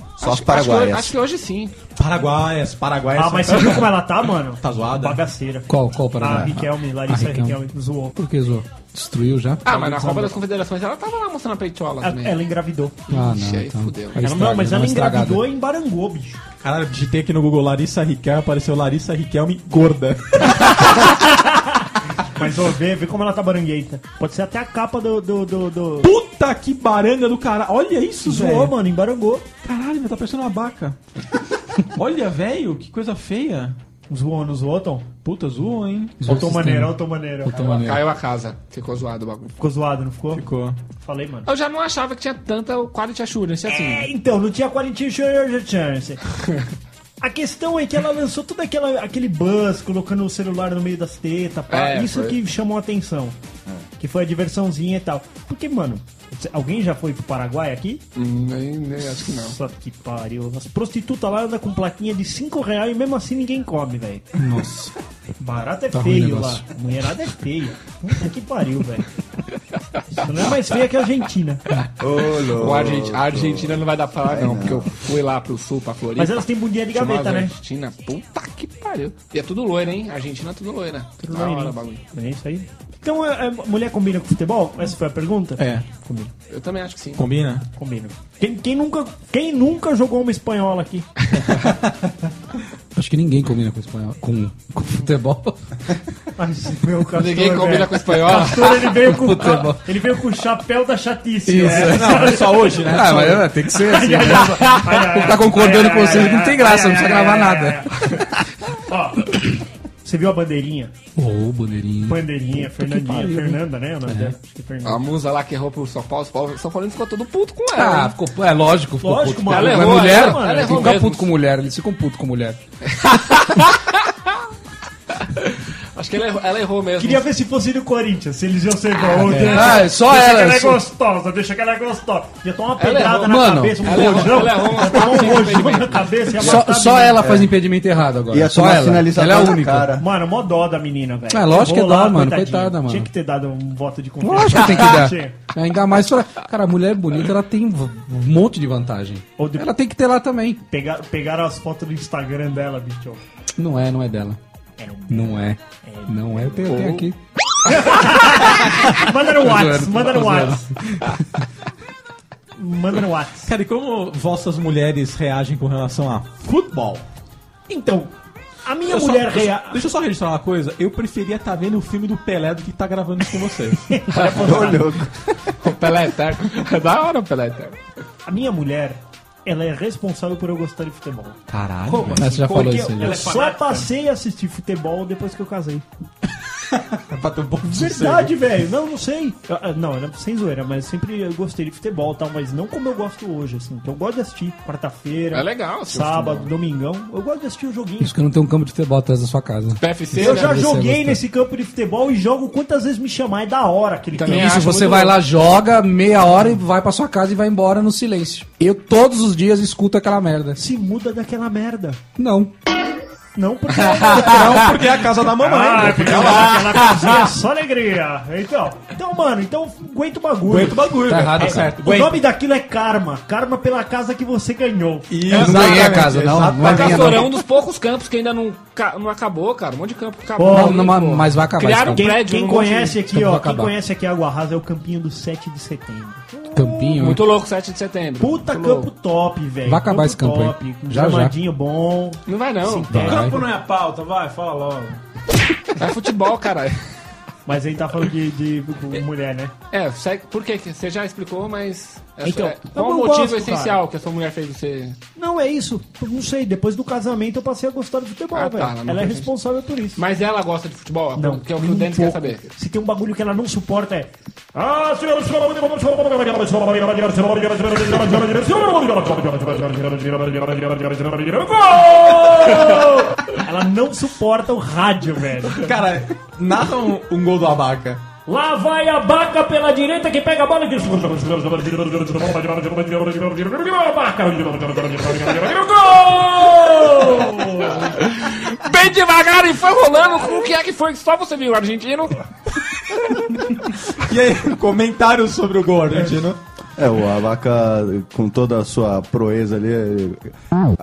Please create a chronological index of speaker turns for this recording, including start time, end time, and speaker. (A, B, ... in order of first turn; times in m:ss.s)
0:00.2-0:01.7 A
0:00.2-0:01.1 B
0:02.0-0:04.0 C
0:03.1-0:08.2 D
0:04.6-0:05.2 C
0:05.7-0:07.6 E
0:08.2-0:10.1 E
0:09.6-0:12.4 A
0:09.7-0:10.2 D
0:12.0-0:13.0 D
0:13.1-0:14.3 A
0:13.1-0:15.4 E
0:14.2-0:16.4 D
0:16.6-0:20.9 C
0:21.0-0:26.1 D
0:26.0-0:28.8 C
0:28.2-0:29.4 D
0:29.6-0:31.0 C
0:31.9-0:33.8 C
0:34.1-0:35.1 D
0:35.2-0:36.2 C
0:36.2-0:38.0 E
0:36.2-0:37.5 D
0:37.5-0:39.6 A
0:39.6-0:40.4 D
0:40.3-0:40.8 C
0:41.0-0:41.5 D
0:41.4-0:44.1 A
0:43.7-0:46.2 D
0:47.2-0:53.4 D
0:51.7-0:52.4 A
0:54.0-0:58.0 D
0:58.1-0:59.6 A
0:59.2-1:04.3 D
1:04.4-1:04.9 E
1:05.4-1:09.1 D
1:05.9-1:06.6 E
1:10.1-1:11.6 D
1:12.0-1:14.9 B
1:12.4-1:22.0 A
1:16.2-1:17.5 D
1:21.2-1:26.3 D
1:25.6-1:25.8 C
1:26.5-1:27.3 A
1:27.2-1:27.6 C
1:27.7-1:31.1 D
1:32.9-1:35.6 E
1:36.4-1:43.1 D
1:37.1-1:39.0 A
1:38.9-1:39.8 E
1:41.4-1:47.9 E
1:41.8-1:43.5 C
1:43.7-1:48.3 D
1:48.9-1:50.9 D
1:51.2-1:54.4 E
1:52.0-1:55.0 D
1:54.8-1:58.2 A
1:57.7-2:02.6 E
1:59.0-2:01.0 D
1:59.5-2:01.3 A
2:02.9-2:03.8 A
2:05.4-2:07.3 A
2:07.0-2:17.4 D
2:09.1-2:09.8 A
2:09.2-2:10.8 E
2:12.8-2:13.3 A
2:13.1-2:14.5 E
2:13.8-2:16.6 A
2:16.4-2:19.9 E
2:17.2-2:17.5 B
2:18.3-2:20.0 B
2:20.0-2:25.4 D
2:21.3-2:23.1 E
2:24.2-2:30.6 E
2:29.4-2:29.7 D
2:30.7-2:33.2 D
2:33.6-2:34.4 E
2:34.8-2:36.8 D
2:35.1-2:37.2 E
2:36.7-2:37.0 A
2:37.7-2:40.7 D
2:38.3-2:41.4 E
2:42.6-2:43.5 D
2:43.4-2:47.0 C
2:47.7-2:48.1 D
2:48.6-2:49.8 D
2:48.9-2:53.9 C
2:53.9-2:55.0 D
2:54.1-2:54.7 A
2:54.2-2:55.2 B
2:55.6-2:57.8 A
2:58.2-3:01.4 D
3:01.5-3:02.2 C
3:01.9-3:03.9 F
3:02.1-3:03.2 E
3:02.2-3:05.8 D
3:06.9-3:08.3 C
3:07.6-3:18.1 D
3:15.3-3:16.5 A
3:18.0-3:21.2 E
3:19.8-3:20.6 A
3:20.2-3:24.9 D
3:24.1-3:25.2 A
3:24.2-3:30.6 E
3:30.6-3:32.0 D
3:32.2-3:32.5 E
3:33.3-3:34.7 D
3:34.1-3:36.9 C
3:35.4-3:45.4 D
3:36.4-3:37.2 A
3:40.4-3:42.3 C
3:41.1-3:41.7 E
3:45.1-3:47.4 C
3:45.3-3:47.3 E
3:45.3-3:45.8 A
3:46.6-3:53.0 A
3:50.4-3:50.9 D
3:50.4-3:52.2 E
3:51.9-3:57.2 D
3:53.0-3:53.7 E
3:56.5-3:57.2 E
3:57.0-3:58.9 A
3:58.2-4:03.4 D
3:59.6-4:01.3 E
4:02.3-4:03.1 A
4:02.9-4:03.5 E
4:03.0-4:05.0 F
4:05.8-4:06.9 A
4:07.4-4:09.5 D
4:09.7-4:15.0 A
4:12.2-4:13.8 D
4:15.2-4:20.0 D
4:18.3-4:19.3 A
4:20.0-4:22.5 A
4:21.1-4:35.6 D
4:35.6-4:38.0 C
4:38.2-4:48.0 D
4:47.8-4:52.2 A
4:53.9-4:56.4 C
4:56.8-5:00.3 B